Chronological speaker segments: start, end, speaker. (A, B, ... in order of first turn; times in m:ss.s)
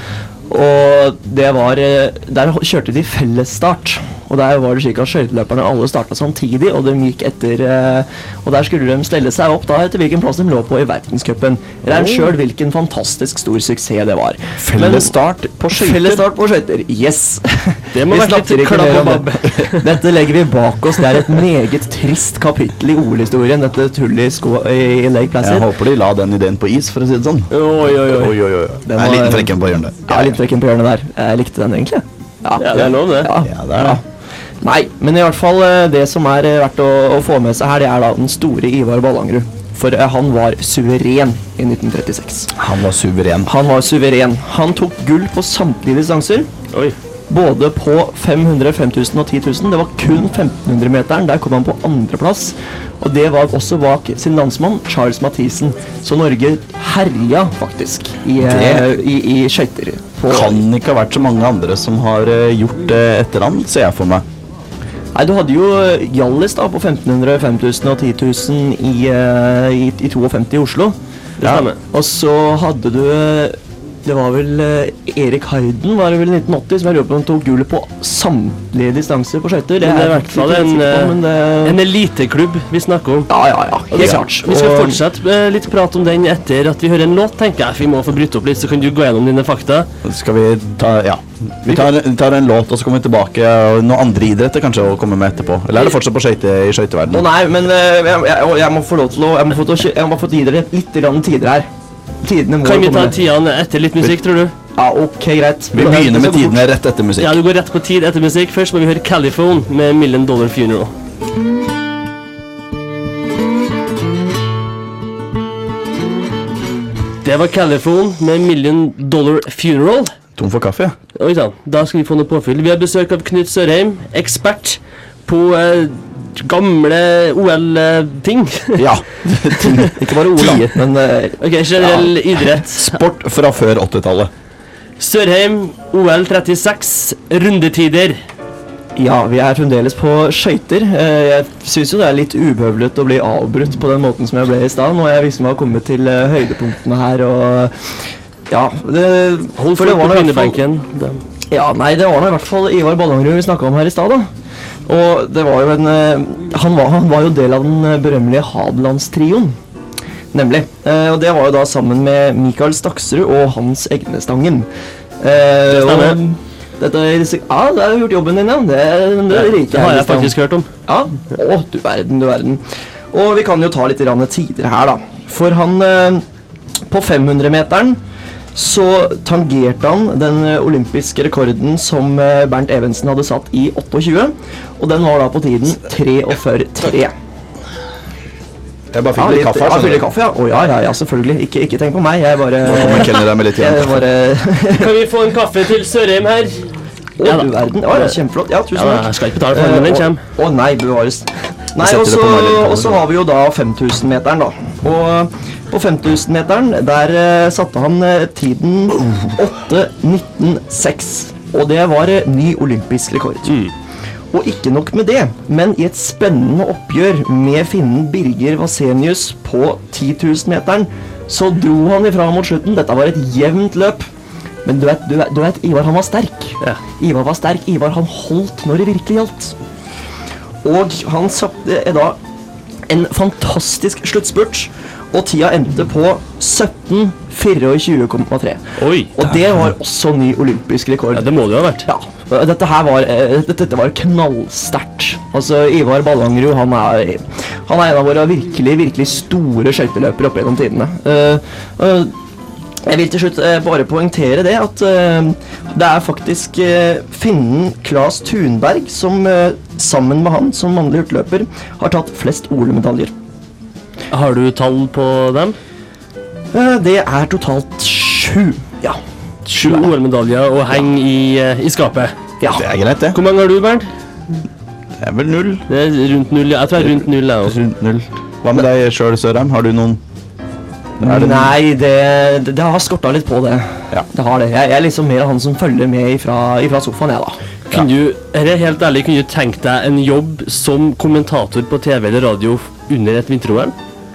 0:00.5-0:15.1 A
0:11.9-0:12.3 B
0:14.6-0:16.2 C
0:15.7-0:25.7 A
0:17.9-0:19.9 B
0:25.4-0:30.4 C
0:27.5-0:28.4 B
0:28.9-0:29.5 A
0:30.1-0:34.0 A
0:32.6-0:33.3 B
0:33.4-0:34.0 C
0:34.6-0:42.5 A
0:42.6-0:43.5 C
0:43.5-0:46.5 A
0:47.3-1:00.6 A
0:58.4-0:58.9 C
1:00.3-1:04.2 C
1:05.1-1:11.0 A
1:11.4-1:11.8 B
1:11.4-1:11.7 C
1:11.9-1:21.8 A
1:19.8-1:23.3 B
1:23.3-1:25.0 A
1:23.9-1:29.9 B
1:30.0-1:37.3 C
1:37.1-1:41.7 A
1:42.2-1:43.2 A
1:42.6-1:44.5 B
1:44.8-1:46.6 A
1:45.7-1:47.4 C
1:47.2-1:50.9 B
1:57.2-2:00.1 B
2:00.4-2:01.0 C
2:01.2-2:08.9 B
2:08.8-2:10.6 C
2:10.0-2:12.1 A
2:11.4-2:13.0 B
2:12.6-2:14.3 C
2:15.0-2:18.2 B
2:19.0-2:27.7 A
2:28.5-2:30.6 A
2:29.6-2:31.2 B
2:31.5-2:34.3 A
2:34.9-2:39.6 A
2:40.3-2:44.7 A
2:45.2-2:50.4 A
2:45.7-2:46.2 B
2:49.3-2:50.7 B
2:50.9-2:56.2 A
2:56.9-2:58.0 A
2:58.6-3:07.1 A
3:08.9-3:10.1 C
3:09.2-3:14.9 A
3:12.6-3:14.0 C
3:14.7-3:16.6 B
3:17.2-3:33.7 A
3:17.2-3:18.2 B
3:18.7-3:20.2 B
3:21.8-3:23.0 C
3:34.3-3:44.1 A
3:44.6-3:49.5 A
3:50.6-3:52.2 A
3:52.9-3:58.6 A
3:58.8-3:59.2 B
3:59.1-4:01.3 A
4:01.1-4:01.9 B
4:01.8-4:12.1 A
4:12.9-4:23.1 A
4:24.1-4:25.6 B
4:26.5-4:29.0 A
4:29.5-4:32.1 B
4:29.5-4:29.9 A
4:32.5-4:33.2 C
4:33.1-4:33.9 B
4:35.0-4:35.6 C
4:35.7-4:37.6 B
4:36.8-4:40.0 C
4:41.0-4:41.6 C
4:41.0-4:47.4 A
4:47.7-4:53.7 B